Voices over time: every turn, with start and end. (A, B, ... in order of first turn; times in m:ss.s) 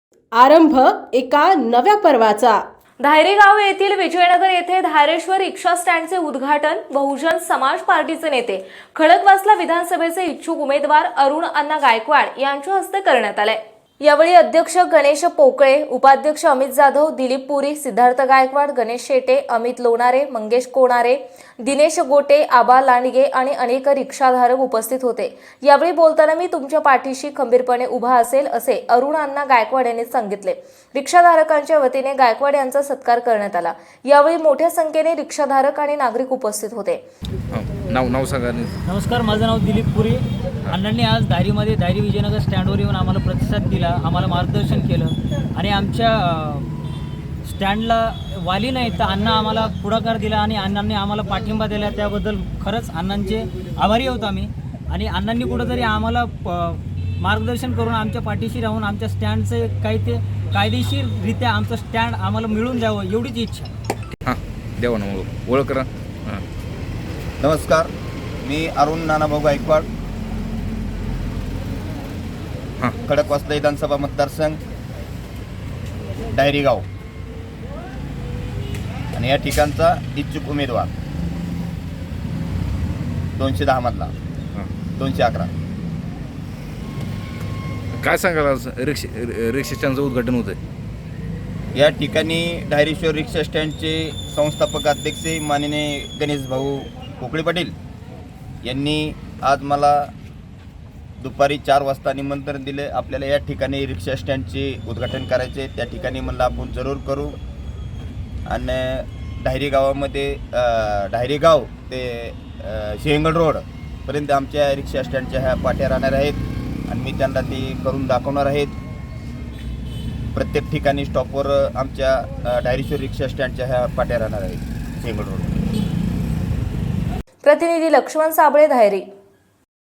0:00.3-0:02.6 A
0:03.0-0:37.0 B
0:37.5-0:38.7 C
0:38.8-0:46.7 D
0:47.4-1:03.7 D
1:04.2-1:06.4 C
1:07.4-1:07.9 E
1:08.4-1:09.9 E
1:13.0-1:14.6 E
1:16.3-1:16.8 E
1:19.1-1:20.9 E
1:23.4-1:24.1 E
1:25.0-1:25.5 E
1:28.0-1:30.6 C
1:31.8-1:37.7 E
1:38.6-1:40.1 E
1:41.2-1:47.4 E
1:48.5-1:58.7 E
2:00.3-2:05.5 E
2:07.4-2:09.0 B